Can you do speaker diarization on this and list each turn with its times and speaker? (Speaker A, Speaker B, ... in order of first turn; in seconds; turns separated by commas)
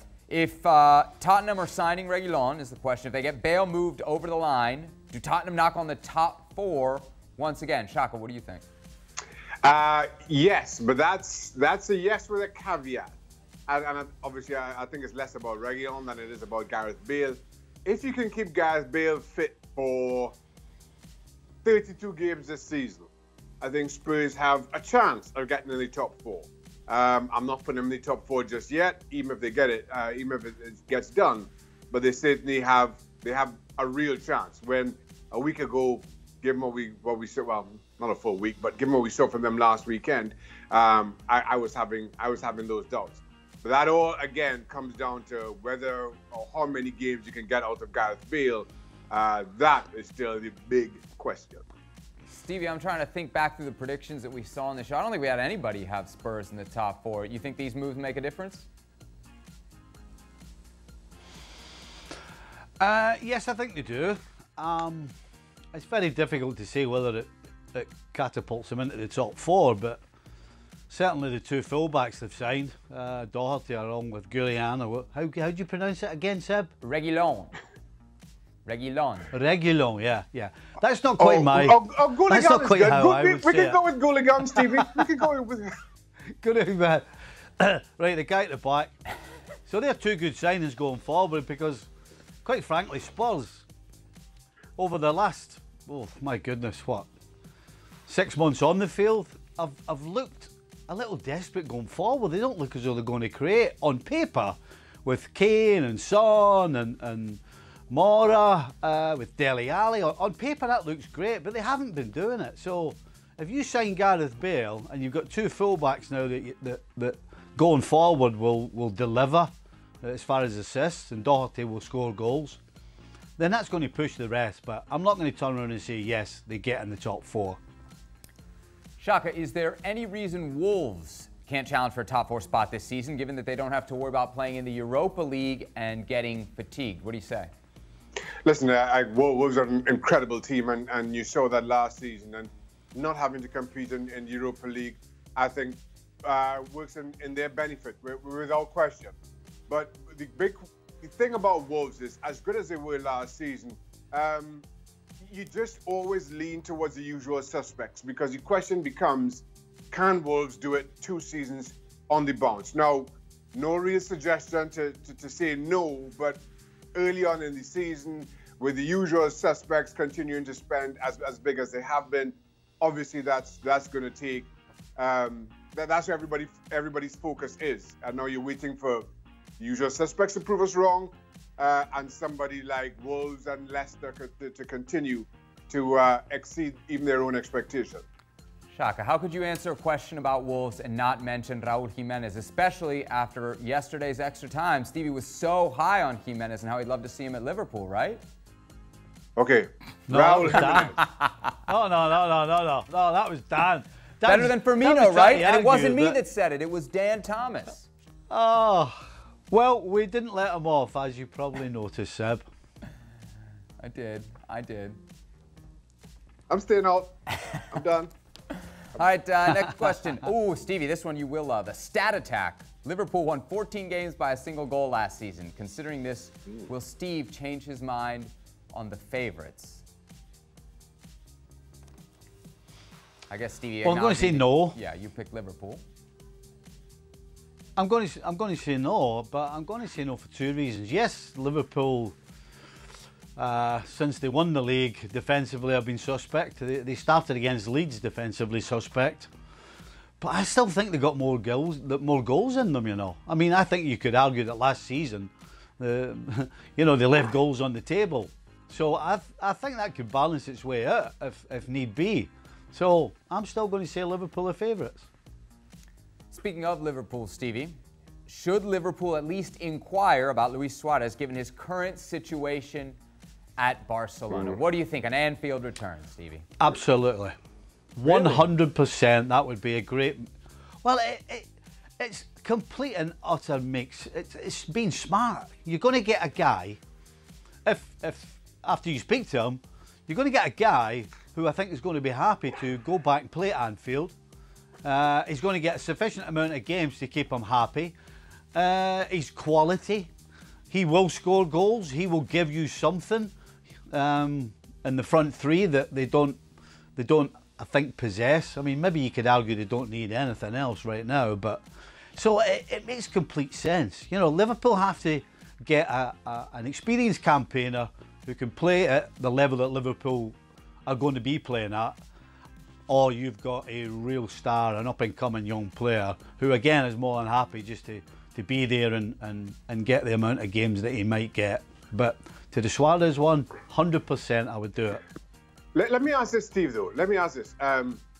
Speaker A: 0.3-8.7, Speaker B: 9.6-13.1, Speaker B: 13.7-20.4, Speaker B: 21.6-23.1, Speaker B: 23.6-51.6, Speaker A: 52.3-58.7, Speaker C: 62.8-65.1, Speaker C: 65.7-70.0, Speaker C: 70.9-76.7, Speaker A: 76.8-77.5, Speaker A: 78.7-79.3, Speaker C: 79.3-83.8, Speaker B: 81.2-85.7, Speaker C: 84.5-85.1, Speaker C: 86.4-87.0, Speaker C: 87.6-88.9, Speaker C: 89.7-91.9, Speaker C: 92.4-93.7, Speaker C: 94.8-97.1, Speaker C: 98.1-119.5, Speaker C: 120.0-122.6, Speaker C: 123.4-127.6, Speaker A: 129.0-137.5, Speaker B: 138.5-149.2, Speaker B: 149.7-154.7, Speaker B: 155.2-166.4, Speaker B: 166.9-179.1, Speaker B: 179.6-188.0, Speaker A: 188.7-198.2, Speaker B: 199.4-201.0, Speaker C: 200.1-201.0, Speaker A: 200.9-201.5, Speaker C: 201.7-206.2, Speaker A: 204.2-207.9, Speaker C: 208.3-212.4, Speaker A: 213.8-215.0, Speaker B: 216.5-218.1, Speaker A: 218.9-229.8, Speaker A: 233.3-235.8, Speaker C: 233.8-234.8, Speaker C: 237.8-242.2, Speaker C: 243.4-249.3, Speaker C: 250.2-265.1, Speaker A: 266.3-267.8, Speaker A: 268.3-273.0, Speaker A: 273.6-276.5, Speaker C: 276.6-277.4, Speaker C: 278.0-280.3, Speaker B: 278.1-278.4, Speaker C: 280.8-286.8, Speaker C: 287.6-294.2, Speaker C: 294.8-298.0, Speaker C: 298.5-300.1, Speaker C: 300.7-303.3, Speaker C: 303.9-306.4, Speaker C: 307.0-322.0, Speaker C: 322.9-335.0, Speaker B: 335.8-338.0